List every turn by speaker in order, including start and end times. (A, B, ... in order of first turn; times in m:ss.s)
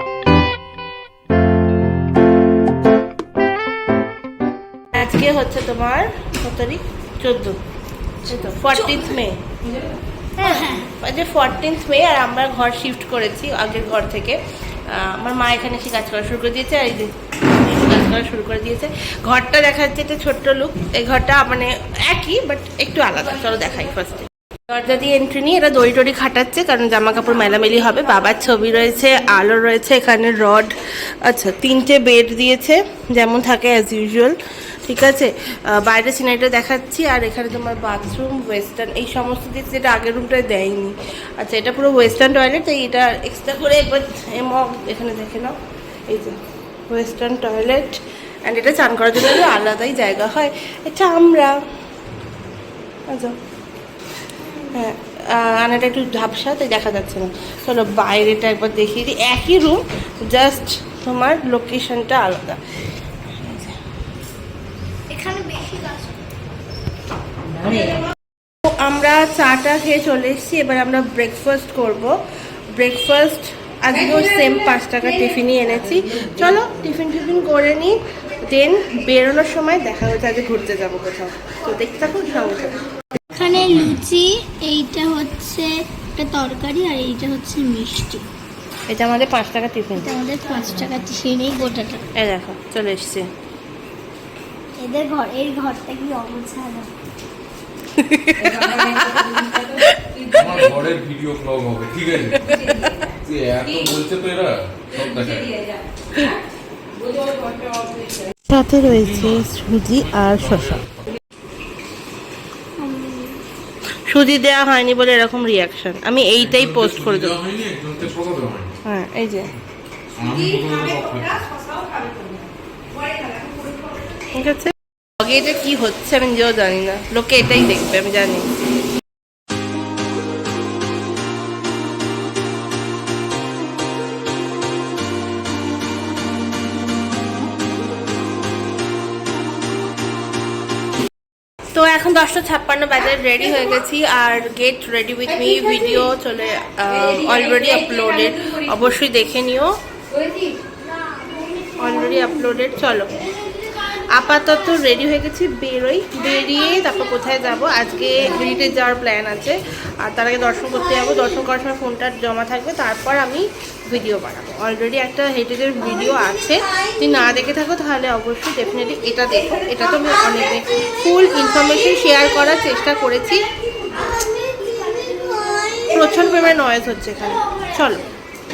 0:04.9-0:07.6 A
0:08.2-0:09.8 A
0:10.4-0:45.6 A
0:10.4-0:10.8 B
0:46.1-0:51.6 A
0:53.1-0:53.4 A
0:54.5-1:02.6 A
1:03.2-1:03.8 A
1:05.1-1:05.8 B
1:07.6-1:08.0 A
1:08.6-1:12.2 A
1:12.7-1:22.8 A
1:23.3-1:28.2 B
1:28.9-1:30.2 A
1:30.0-1:32.0 B
1:32.1-1:33.3 A
1:34.8-1:36.9 B
1:38.0-1:40.4 A
1:40.3-1:42.5 C
1:42.5-1:43.1 A
1:43.2-1:45.5 C
1:48.4-1:50.8 A
1:49.0-1:49.4 C
1:50.1-1:50.8 C
1:52.9-1:53.2 B
1:54.1-1:57.4 A
1:56.8-1:58.7 C
1:58.8-1:59.5 A
2:00.2-2:01.4 C
2:04.2-2:08.5 A
2:21.7-2:29.8 A
2:31.8-2:53.4 A
2:54.2-2:55.8 B
2:55.8-2:58.0 A